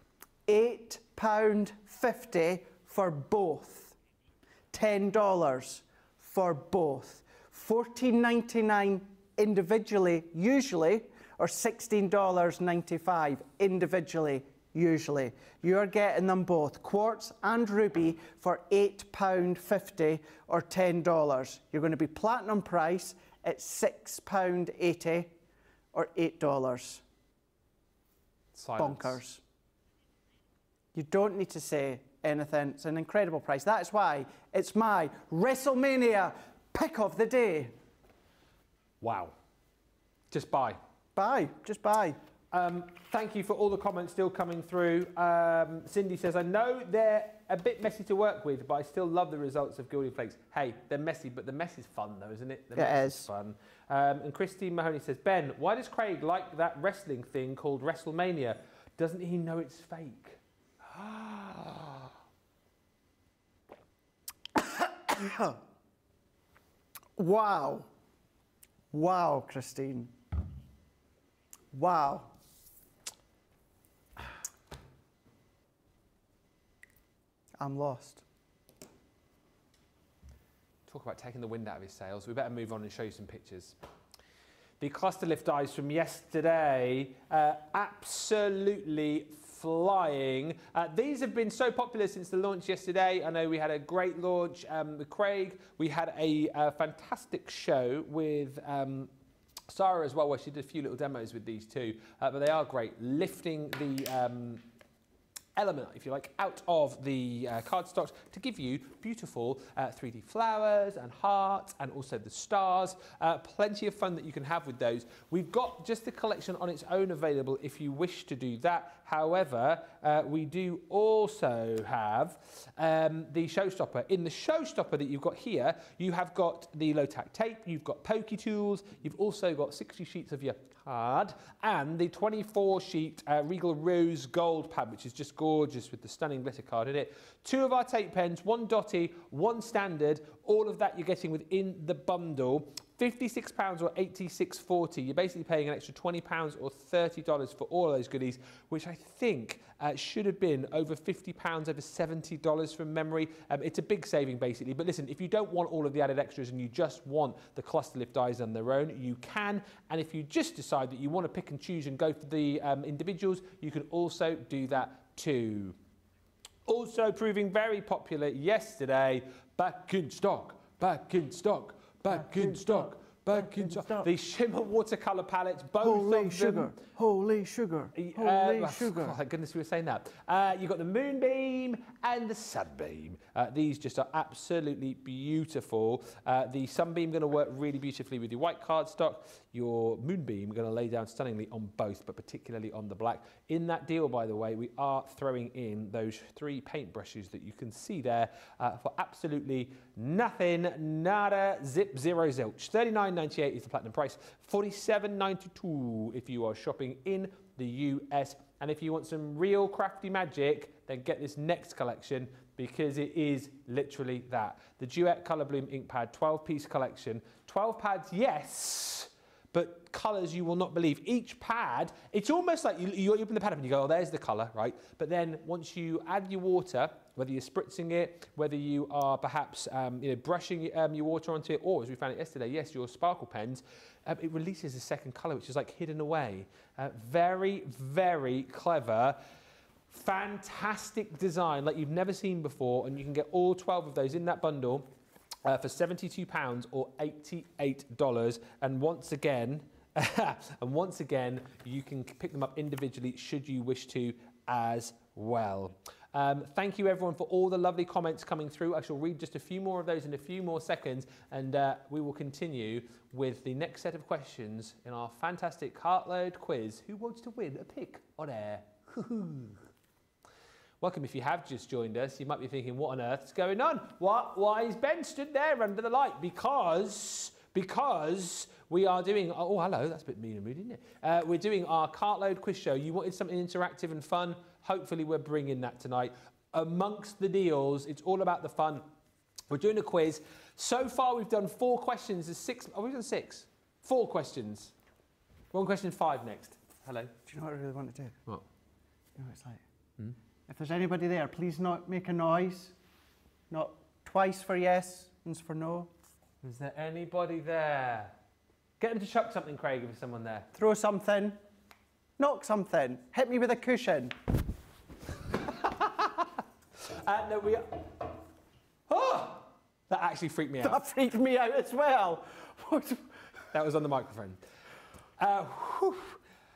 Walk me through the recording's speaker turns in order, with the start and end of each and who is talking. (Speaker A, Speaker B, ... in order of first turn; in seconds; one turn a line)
Speaker A: 0.5-3.9
Speaker A: 4.7-25.3
Speaker A: 25.9-27.0
Speaker B: 28.5-29.2
Speaker A: 28.8-29.4
Speaker A: 30.9-37.7
Speaker B: 39.0-39.3
Speaker B: 40.3-40.8
Speaker A: 41.1-42.2
Speaker B: 42.5-60.4
Speaker A: 52.7-53.3
Speaker A: 60.9-61.9
Speaker A: 64.5-65.6
Speaker A: 67.2-67.9
Speaker A: 68.9-70.1
Speaker A: 71.7-72.3
Speaker A: 77.6-78.2
Speaker B: 80.9-83.8
Speaker B: 84.8-99.1
Speaker B: 99.7-104.6
Speaker B: 105.5-165.8
Speaker B: 166.7-176.7
Speaker A: 172.1-174.1
Speaker A: 175.8-179.2
Speaker B: 177.9-239.2
Speaker B: 239.9-244.9
Speaker B: 245.4-269.6
Speaker B: 270.8-288.8
Speaker B: 289.5-294.7
Speaker B: 295.5-297.1
Speaker A: 297.2-298.2
Speaker A: 299.1-299.6
Speaker A: 300.5-302.7
Speaker A: 303.5-305.9
Speaker B: 306.4-308.1
Speaker B: 308.8-310.5
Speaker A: 310.5-311.4
Speaker A: 312.2-314.1
Speaker B: 315.5-316.3
Speaker B: 316.8-318.0
Speaker B: 318.9-320.8
Speaker A: 320.6-323.1
Speaker B: 323.5-324.4
Speaker B: 325.2-326.2